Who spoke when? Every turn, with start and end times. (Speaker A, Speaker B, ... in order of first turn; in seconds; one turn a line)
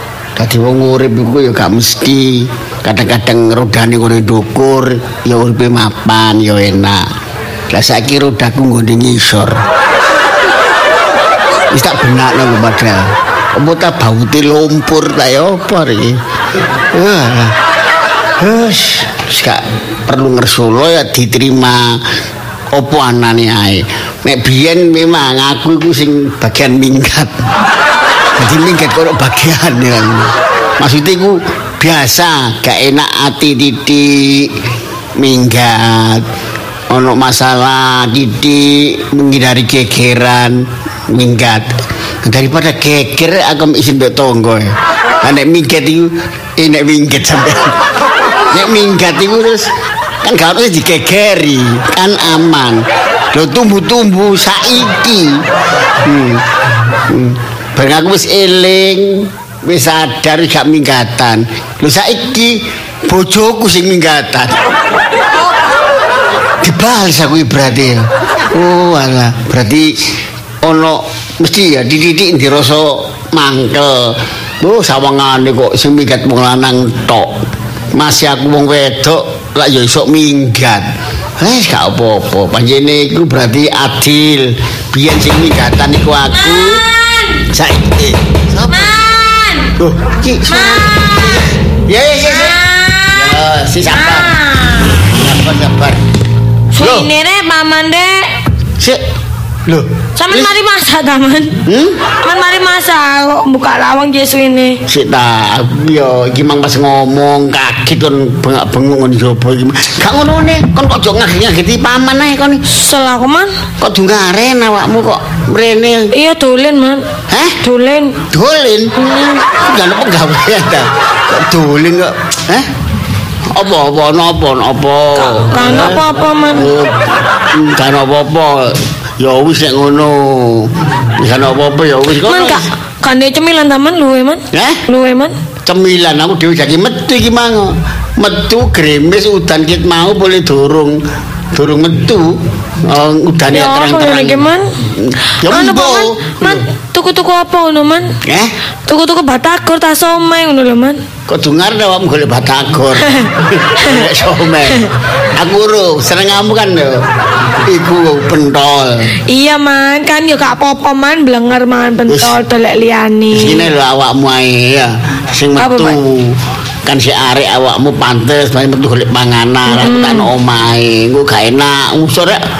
Speaker A: 0.4-7.0
Speaker A: 7.7-9.6
Speaker A: 11.7-16.2
Speaker A: 16.9-17.6
Speaker A: 18.4-22.0
Speaker A: 22.7-27.4
Speaker A: 28.4-34.5
Speaker A: 35.2-36.2
Speaker A: 36.9-41.7
Speaker A: 42.2-44.7
Speaker A: 45.2-47.7
Speaker A: 48.5-49.7
Speaker A: 50.2-55.3
Speaker A: 56.0-56.4
Speaker A: 57.1-62.5
Speaker A: 63.1-64.6
Speaker A: 66.6-70.0
Speaker A: 70.6-77.3
Speaker A: 77.9-80.9
Speaker A: 81.4-86.8
Speaker B: 86.3-87.4
Speaker A: 87.5-89.0
Speaker B: 88.7-89.7
Speaker A: 89.8-92.6
Speaker B: 90.5-91.5
Speaker B: 92.2-93.4
Speaker A: 93.1-94.3
Speaker B: 93.9-95.1
Speaker A: 95.1-96.0
Speaker B: 96.7-98.3
Speaker A: 96.8-97.1
Speaker A: 99.7-100.5
Speaker B: 100.2-101.5
Speaker A: 101.7-102.0
Speaker B: 102.2-104.8
Speaker A: 104.9-112.6
Speaker B: 112.7-113.5
Speaker A: 113.8-116.1
Speaker B: 116.1-117.0
Speaker A: 117.3-117.6
Speaker B: 117.6-118.2
Speaker A: 118.3-122.7
Speaker A: 123.5-126.0
Speaker B: 125.2-126.7
Speaker A: 126.5-132.6
Speaker B: 132.2-135.3
Speaker A: 134.5-134.8
Speaker A: 135.7-141.0
Speaker A: 141.5-142.3
Speaker A: 142.8-146.6
Speaker B: 143.5-144.7
Speaker B: 145.4-148.1
Speaker A: 148.2-148.5
Speaker B: 148.9-151.0
Speaker A: 151.3-157.0
Speaker A: 157.7-159.1
Speaker B: 159.3-163.7
Speaker A: 162.1-162.3
Speaker A: 163.3-172.4
Speaker B: 165.6-166.0
Speaker B: 169.7-170.3